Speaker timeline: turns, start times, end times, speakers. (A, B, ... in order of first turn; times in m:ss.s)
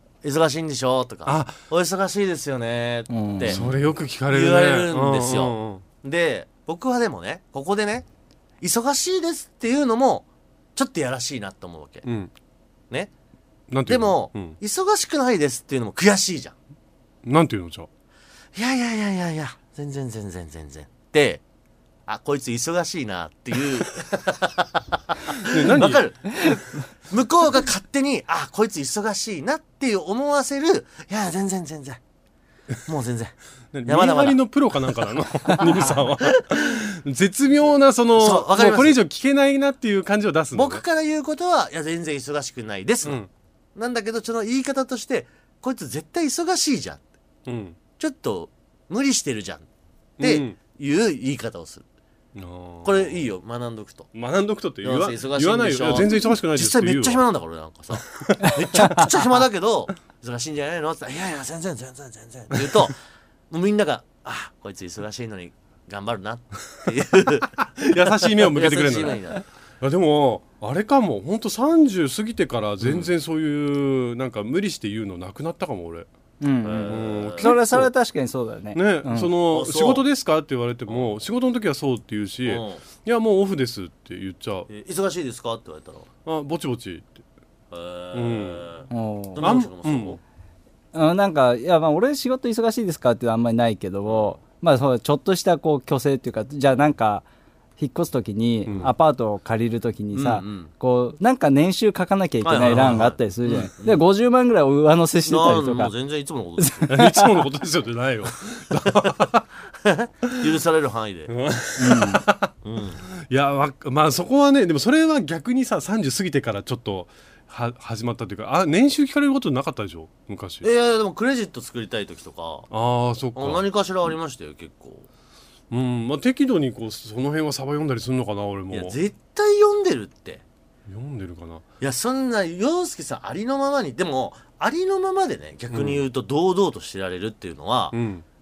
0:00.2-0:03.7 A
0:01.2-0:01.5 B
0:03.1-0:03.6 C
0:03.4-0:05.8 B
0:04.3-0:08.0 A
0:08.6-0:12.0 A
0:12.0-0:12.3 B
0:13.7-0:14.6 B
0:13.8-0:16.5 A
0:17.2-0:17.9 B
0:18.5-0:21.4 A
0:22.1-0:32.0 A
0:25.4-0:26.0 B
0:32.8-0:33.3 A
0:33.7-0:40.8 B
0:33.9-0:34.4 A
0:35.6-0:36.6 A
0:38.1-0:39.0 A
0:40.5-0:43.2 A
0:43.0-0:43.3 B
0:43.7-0:47.0 A
0:47.4-0:47.8 B
0:48.0-0:49.6 A
0:50.2-0:50.6 B
0:50.2-0:51.8 A
0:52.4-0:53.2 B
0:52.8-0:54.1 A
0:54.1-0:57.2 B
0:54.8-1:03.0 A
0:58.1-0:59.1 B
1:03.5-1:09.4 A
1:07.8-1:09.2 B
1:09.8-1:16.1 B
1:12.8-1:13.1 A
1:16.4-1:19.3 C
1:16.6-1:17.6 A
1:16.8-1:17.9 B
1:18.7-1:24.7 B
1:19.5-1:20.0 A
1:22.4-1:22.8 A
1:24.7-1:26.1 A
1:26.2-1:27.2 B
1:27.7-1:30.2 A
1:28.1-1:28.6 B
1:28.9-1:29.5 C
1:29.4-1:30.2 B
1:30.9-1:37.2 C
1:34.0-1:34.4 A
1:37.8-1:45.9 C
1:40.1-1:40.7 A
1:42.4-1:44.0 A
1:42.7-1:43.0 B
1:45.3-1:46.9 A
1:46.6-1:47.3 C
1:46.9-1:49.4 B
1:49.8-1:51.3 A
1:51.3-1:52.5 B
1:51.8-1:52.2 C
1:52.6-1:53.0 A
1:53.3-2:00.7 B
2:00.6-2:02.7 A
2:02.7-2:03.6 B
2:03.3-2:05.0 A
2:05.7-2:09.0 B
2:08.7-2:10.4 A
2:10.9-2:11.6 B
2:11.8-2:18.0 A
2:15.7-2:16.0 B
2:17.9-2:18.2 B